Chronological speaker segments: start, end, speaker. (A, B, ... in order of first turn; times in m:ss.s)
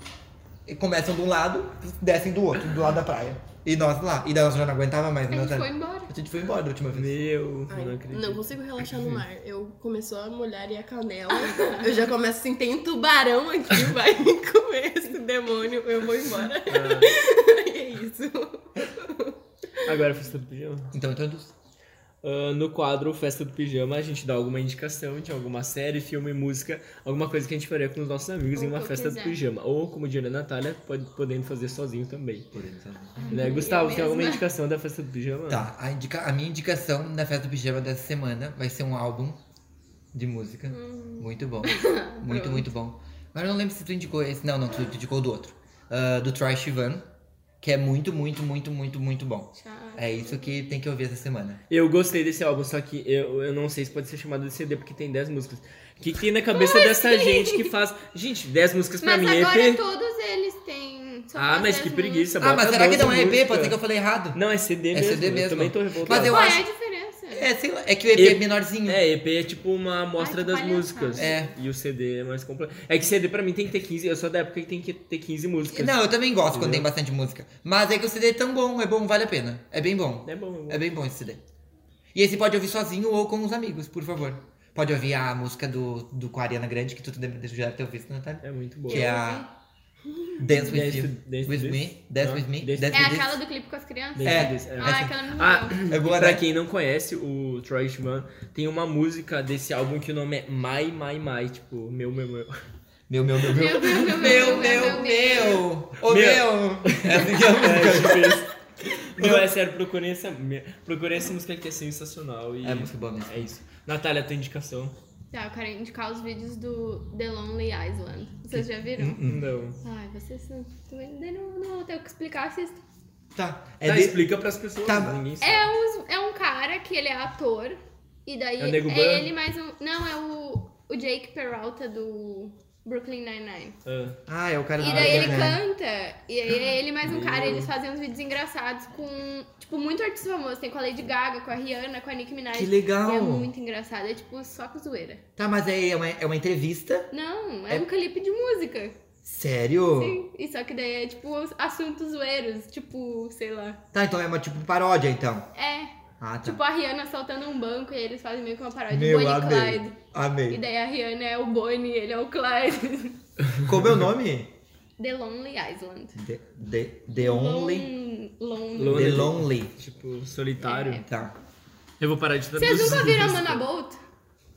0:00.7-0:07.2 A
0:05.3-0:06.1 B
0:06.9-0:09.2 C
0:07.7-0:19.4 D
0:11.4-0:12.0 B
0:16.7-0:17.1 C
0:19.8-0:20.9 C
0:20.9-0:21.5 A
0:22.2-0:32.5 C
0:28.6-0:29.4 B
0:32.5-0:33.3 A
0:33.2-0:34.4 B
0:33.3-0:35.7 C
0:35.5-0:39.4 A
0:40.1-0:47.0 A
0:40.7-0:42.7 B
0:47.6-0:51.6 A
0:49.5-0:50.7 B
0:51.7-0:59.8 C
0:56.5-0:57.7 B
0:59.0-1:02.3 B
1:01.4-1:03.8 C
1:02.4-1:04.4 A
1:04.3-1:06.6 C
1:04.9-1:06.6 A
1:06.2-1:07.5 B
1:07.3-1:09.0 A
1:08.1-1:16.9 C
1:10.2-1:11.3 B
1:11.2-1:11.5 A
1:15.7-1:21.4 A
1:20.3-1:20.9 C
1:22.1-1:29.5 A
1:28.4-1:29.1 C
1:28.9-1:29.5 B
1:30.4-1:33.4 A
1:30.5-1:33.2 C
1:32.9-1:35.8 B
1:34.2-1:42.6 C
1:34.2-1:35.1 A
1:35.9-1:36.4 A
1:43.1-1:48.5 A
1:43.5-1:45.6 B
1:44.2-1:44.9 C
1:46.0-1:55.0 C
1:49.2-1:49.5 A
1:52.6-1:53.5 A
1:55.3-1:59.2 B
1:58.5-1:59.4 A
1:59.2-1:59.8 C
1:59.8-2:02.8 B
2:03.4-2:04.2 A
2:03.8-2:05.7 C
2:04.8-2:05.2 A
2:05.4-2:13.8 B
2:08.6-2:09.3 C
2:13.9-2:14.2 C
2:14.3-2:15.6 A
2:14.8-2:15.6 C
2:14.8-2:25.2 B
2:17.0-2:17.7 C
2:22.5-2:23.5 A
2:25.4-2:27.1 A
2:27.1-2:29.0 B
2:29.2-2:30.2 A
2:30.0-2:33.8 B
2:33.9-2:35.5 A
2:35.5-2:40.0 B
2:36.2-2:36.6 A
2:38.9-2:40.6 A
2:40.5-2:43.2 B
2:43.6-2:44.5 A
2:45.0-2:46.2 B
2:46.2-2:47.9 A
2:47.2-2:49.4 B
2:48.8-2:51.0 C
2:48.8-2:49.7 A
2:50.6-2:51.1 B
2:51.0-2:51.4 A
2:52.0-2:53.6 C
2:52.6-2:54.0 B